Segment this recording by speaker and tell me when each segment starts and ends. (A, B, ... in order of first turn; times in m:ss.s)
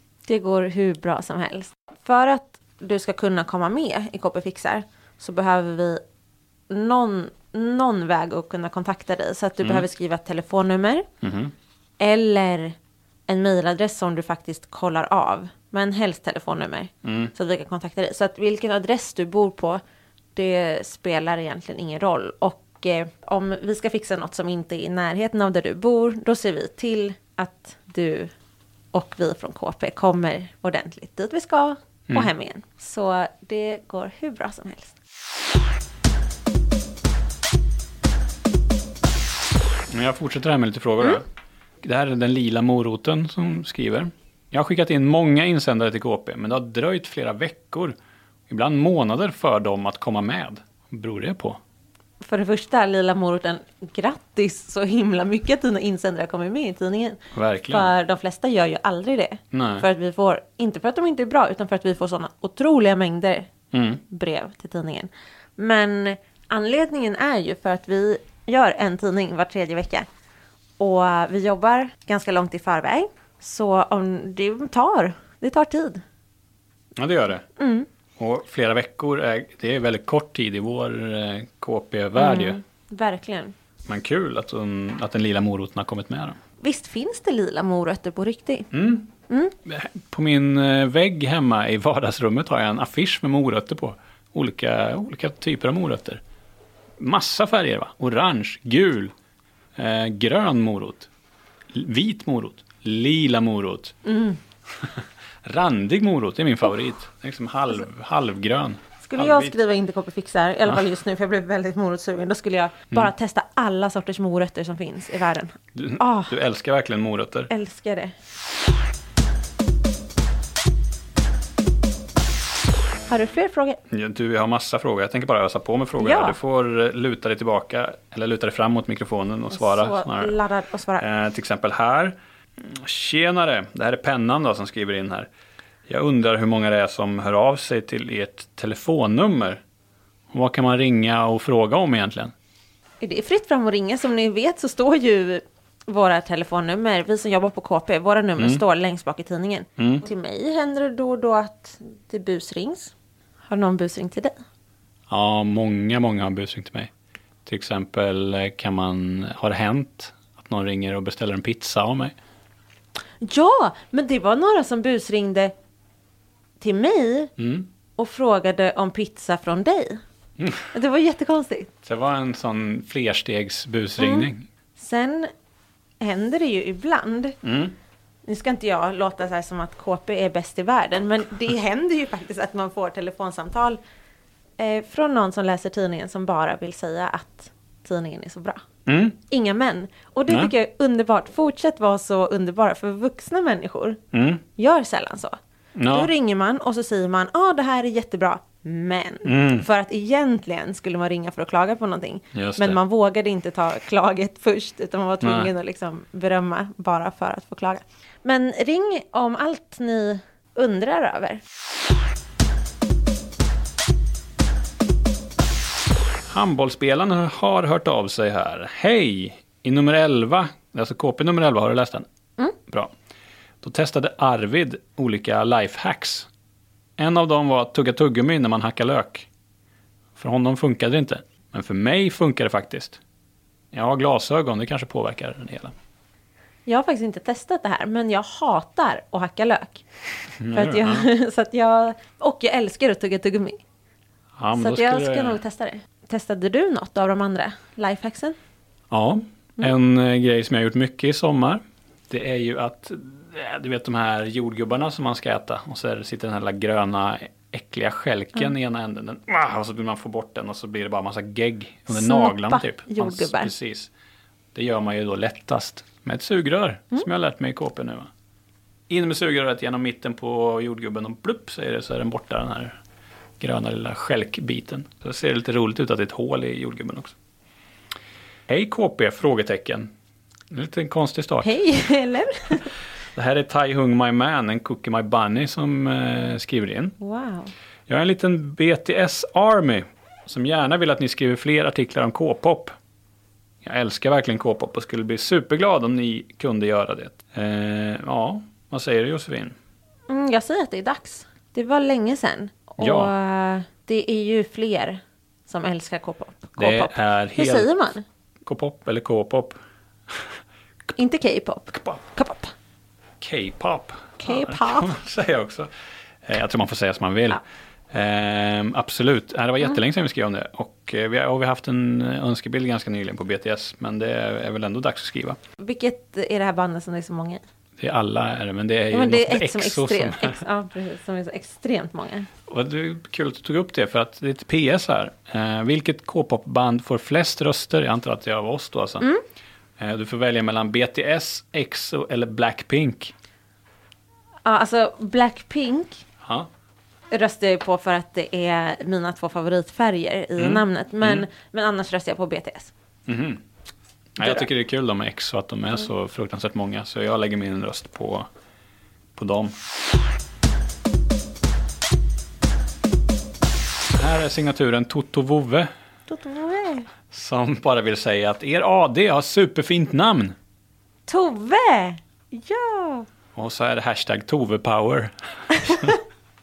0:00.3-0:06.0 A
0:06.7-0:11.0 A
0:11.2-0:11.5 B
0:12.0-0:19.8 A
0:17.0-0:17.3 B
0:20.3-0:28.3 A
0:28.9-0:35.0 A
0:39.9-0:41.2 B
0:41.8-0:48.0 B
0:48.5-0:51.6 B
0:52.2-1:03.5 A
0:57.3-0:57.9 B
0:59.5-0:59.8 B
1:03.7-1:04.0 B
1:04.0-1:10.0 A
1:10.8-1:16.0 A
1:17.0-1:17.4 B
1:17.6-1:17.9 A
1:18.2-1:22.6 B
1:22.2-1:23.5 A
1:23.8-1:26.4 B
1:26.6-1:28.7 A
1:28.7-1:29.1 B
1:29.3-1:29.5 A
1:29.6-1:36.2 B
1:37.0-1:39.1 B
1:39.8-1:41.1 B
1:41.7-1:43.9 B
1:44.0-1:44.4 A
1:44.8-1:49.6 B
1:49.0-1:56.4 A
1:55.7-1:57.5 B
1:57.5-1:58.1 A
2:03.1-2:03.8 A
2:03.9-2:10.4 B
2:06.0-2:06.4 A
2:09.5-2:11.0 A
2:11.0-2:15.3 B
2:15.9-2:19.6 B
2:20.3-2:22.3 B
2:23.0-2:32.9 A
2:28.4-2:28.6 B
2:29.8-2:30.0 B
2:33.4-2:34.4 A
2:35.1-2:36.9 B
2:37.4-2:42.1 B
2:43.2-2:45.5 A
2:46.6-2:47.3 A
2:47.4-2:47.7 B
2:48.0-2:50.0 A
2:50.4-2:50.7 B
2:50.7-2:51.7 A
2:51.8-2:54.5 B
2:54.0-2:55.3 A
2:56.0-2:57.4 A
2:57.4-2:57.7 B
2:58.2-3:03.8 A
3:04.6-3:08.6 A
3:08.8-3:09.2 B
3:09.3-3:14.0 A
3:14.1-3:14.4 B
3:14.6-3:15.4 A
3:15.8-3:16.1 B
3:15.9-3:31.4 A
3:19.2-3:19.6 B
3:22.3-3:22.8 B
3:25.2-3:25.5 B
3:36.3-3:42.0 B
3:42.7-3:42.9 B
3:43.6-3:46.3 B
3:47.0-3:49.3 B
3:50.2-3:53.0 B
3:53.7-3:55.7 B
3:56.6-3:59.8 A
4:00.4-4:01.1 B
4:00.5-4:03.6 A
4:04.4-4:05.4 B
4:04.5-4:08.4 A
4:08.9-4:23.9 B
4:21.9-4:23.5 A
4:24.5-4:28.1 B
4:28.9-4:32.8 B
4:33.4-4:37.1 B
4:38.5-4:39.9 B
4:40.5-4:41.6 B
4:41.4-4:42.7 A
4:43.1-4:46.9 B
4:47.0-4:47.5 A
4:47.9-4:52.7 B
4:53.6-4:59.5 B
5:00.1-5:08.0 A
5:02.8-5:03.1 B
5:06.6-5:07.7 B
5:08.4-5:09.6 B
5:10.9-5:12.5 A
5:13.2-5:15.7 B
5:14.2-5:15.0 A
5:16.2-5:25.4 B
5:25.6-5:27.4 A
5:27.8-5:30.4 B
5:28.9-5:32.3 A
5:32.5-5:39.0 B
5:39.8-5:43.1 B
5:44.4-5:46.0 A
5:46.2-5:46.5 B
5:47.1-5:52.7 A
5:50.4-5:51.3 B
5:53.1-5:53.4 B
5:54.2-5:58.3 B
5:54.2-5:54.5 A
5:59.1-5:59.5 B
6:03.9-6:05.7 B
6:06.1-6:06.9 A
6:07.1-6:10.3 B
6:11.1-6:13.1 A
6:13.3-6:15.9 B
6:15.5-6:16.0 A